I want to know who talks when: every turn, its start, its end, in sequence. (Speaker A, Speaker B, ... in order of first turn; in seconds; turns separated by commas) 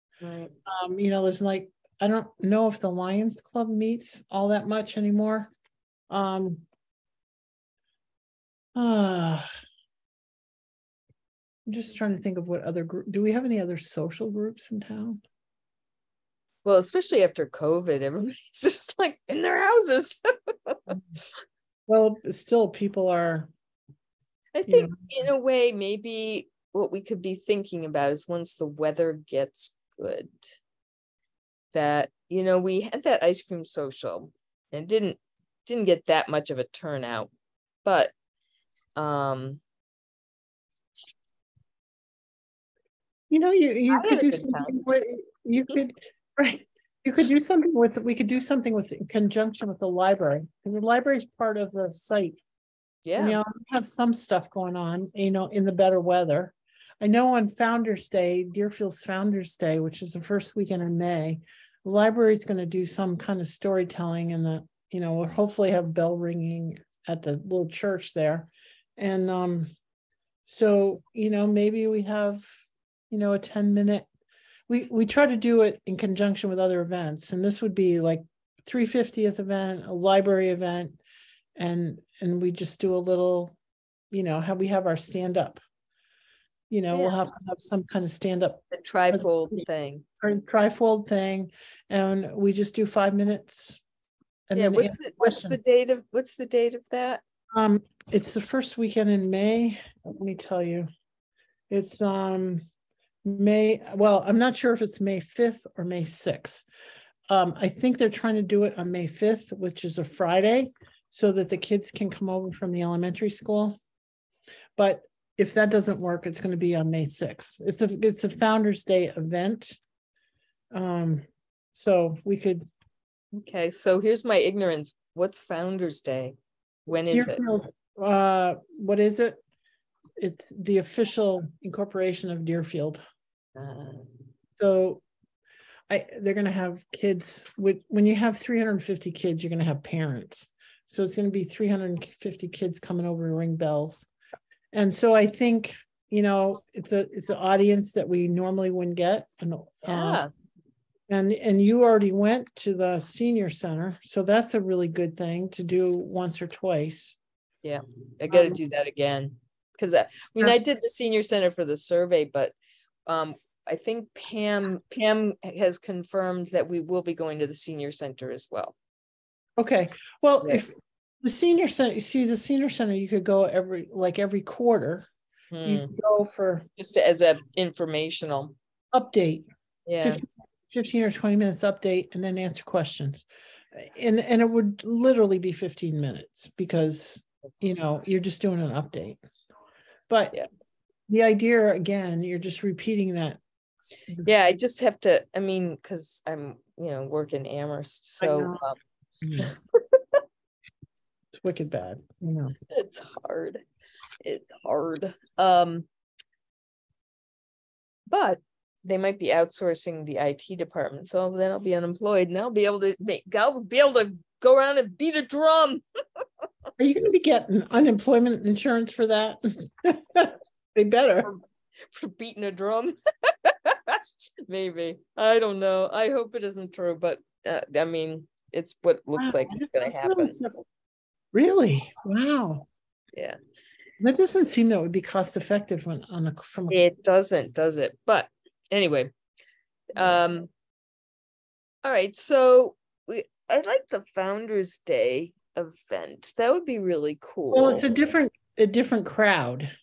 Speaker A: 0.2-0.5, Speaker B: 0.7-5.5, Speaker B: 6.1-6.7, Speaker B: 8.8-9.5, Speaker B: 11.7-15.2, Speaker A: 16.6-21.0, Speaker B: 21.9-23.5, Speaker A: 24.5-30.5, Speaker B: 24.7-25.2, Speaker A: 31.7-37.3, Speaker A: 37.8-38.1, Speaker A: 39.0-39.6, Speaker B: 43.3-52.4, Speaker A: 43.9-44.8, Speaker A: 53.1-53.4, Speaker B: 53.2-69.7, Speaker B: 70.5-72.5, Speaker B: 73.1-74.1, Speaker B: 74.7-81.0, Speaker B: 81.6-83.5, Speaker B: 84.1-85.6, Speaker B: 86.7-89.7, Speaker A: 88.7-90.0, Speaker B: 90.2-93.8, Speaker B: 94.5-95.6, Speaker A: 94.6-97.2, Speaker B: 97.5-100.9, Speaker B: 101.7-102.7, Speaker B: 103.2-106.7, Speaker B: 107.3-113.8, Speaker B: 114.8-119.8, Speaker B: 120.7-122.7, Speaker A: 123.3-126.4, Speaker A: 126.9-127.4, Speaker B: 126.9-129.4, Speaker B: 130.2-133.0, Speaker A: 133.6-134.1, Speaker B: 134.6-135.0, Speaker B: 135.9-144.1, Speaker B: 144.7-150.2, Speaker A: 149.9-150.3, Speaker B: 151.1-157.2, Speaker A: 157.6-162.6, Speaker B: 158.3-158.6, Speaker A: 163.1-168.7, Speaker B: 169.6-175.1, Speaker A: 175.5-175.9, Speaker B: 175.7-176.7, Speaker A: 176.8-178.6, Speaker B: 178.9-179.5, Speaker A: 179.9-180.2, Speaker B: 180.0-189.2, Speaker B: 191.1-193.4, Speaker B: 194.0-194.3, Speaker A: 194.2-198.8, Speaker B: 198.2-198.6, Speaker B: 199.2-199.5, Speaker A: 199.4-200.2, Speaker B: 201.3-202.5, Speaker A: 202.7-203.6, Speaker A: 204.2-205.9, Speaker A: 208.1-215.8, Speaker B: 216.8-221.3, Speaker A: 221.2-230.4, Speaker B: 229.2-230.7, Speaker B: 231.3-232.7, Speaker B: 234.0-236.8, Speaker A: 236.7-239.1, Speaker A: 239.9-240.5, Speaker A: 241.8-248.1, Speaker B: 247.5-249.7